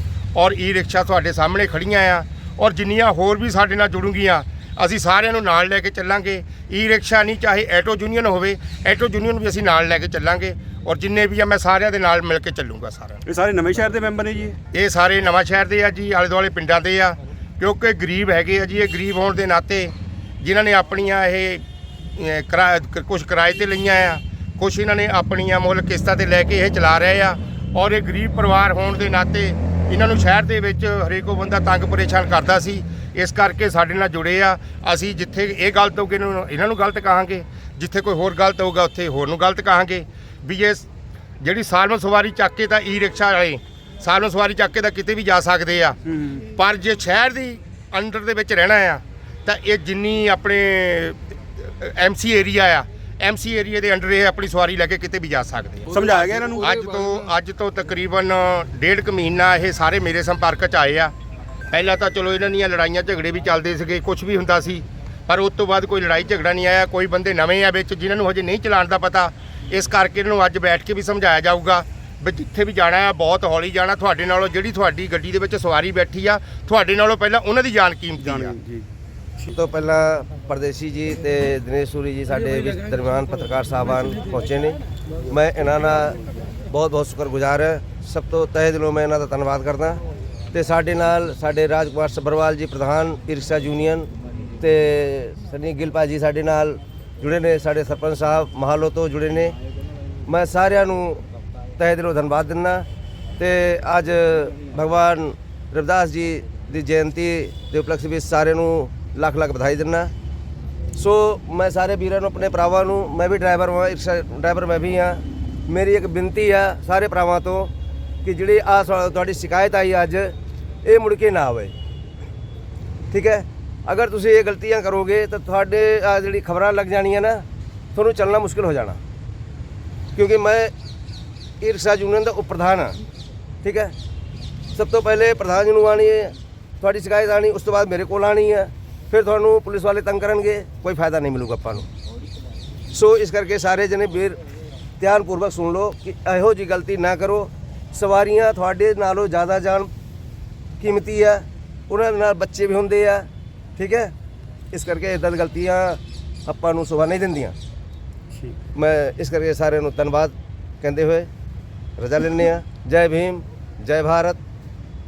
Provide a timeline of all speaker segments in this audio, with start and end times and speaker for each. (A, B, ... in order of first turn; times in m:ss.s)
0:00.4-0:13.2 A
0:13.2-0:14.6 B
0:14.7-0:21.6 A
0:22.2-0:40.8 A
0:41.4-1:01.1 A
0:46.1-0:46.4 B
0:55.9-0:57.0 B
1:01.7-1:18.6 A
1:18.2-1:18.9 B
1:19.5-1:30.0 C
1:30.5-1:34.1 C
1:34.6-1:39.6 C
1:40.2-1:41.2 C
1:41.8-1:42.9 C
1:43.4-1:50.1 C
1:51.0-1:57.7 C
1:58.2-2:01.7 C
2:03.1-2:09.0 C
2:10.2-2:10.7 C
2:11.6-2:13.0 C
2:13.6-2:13.9 C
2:14.8-2:21.9 C
2:22.9-2:24.4 C
2:25.0-2:29.9 C
2:30.8-2:34.1 C
2:34.7-2:37.6 C
2:38.8-2:41.3 C
2:42.0-2:44.4 C